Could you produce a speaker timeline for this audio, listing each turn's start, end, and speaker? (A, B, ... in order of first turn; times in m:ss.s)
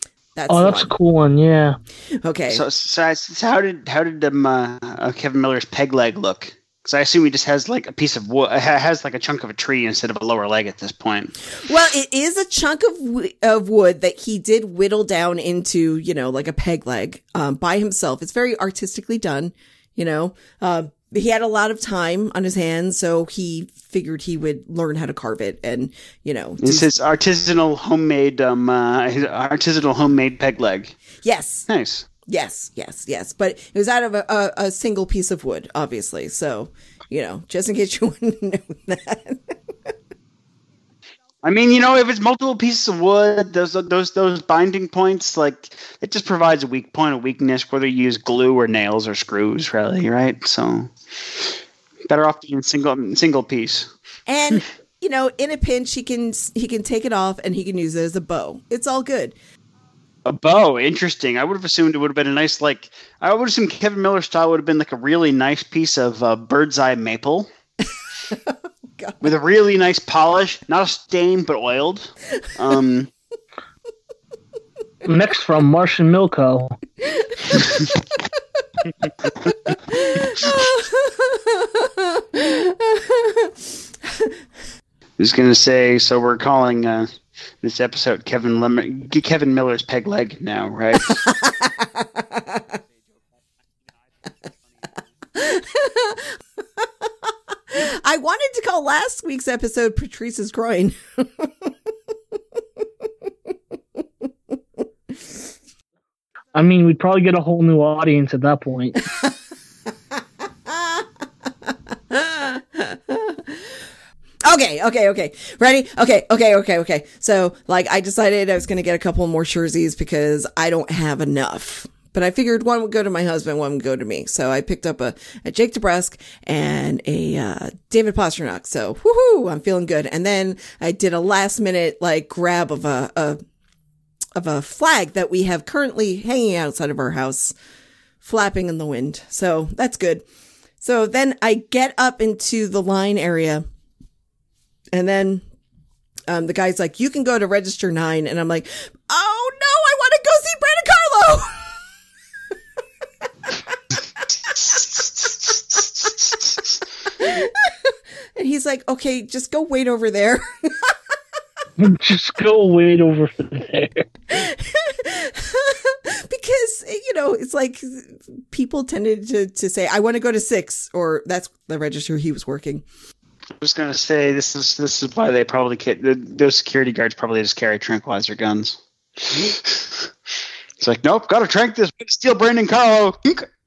0:00.3-0:00.9 A
0:00.5-0:01.8 B
0:02.2-0:02.6 A
0:02.5-0:11.3 C
0:11.6-0:26.9 A
0:26.6-0:31.0 C
0:31.2-0:31.7 A
0:31.7-0:32.1 C
0:32.2-0:39.5 A
0:41.4-0:51.5 C
0:52.1-0:53.9 C
0:54.3-0:59.3 A
1:00.2-1:07.5 C
1:08.3-1:09.2 A
1:09.2-1:13.1 C
1:15.0-1:16.8 B
1:17.2-1:17.6 A
1:19.7-1:23.5 A
1:25.2-1:31.2 C
1:31.2-1:32.6 A
1:35.3-1:36.8 A
1:37.7-1:41.7 A
1:46.5-1:49.0 B
1:50.7-1:51.0 A
1:51.7-1:53.8 A
1:54.4-2:13.4 A
2:14.4-2:17.5 A
2:18.2-2:20.2 A
2:20.8-2:23.6 A
2:24.9-2:25.4 A
2:26.3-2:31.8 A
2:34.6-2:34.8 C
2:36.0-2:36.5 C
2:37.2-2:41.0 A
2:41.8-2:44.1 B
2:44.3-2:52.8 A
2:53.6-3:00.1 C
3:00.8-3:03.5 C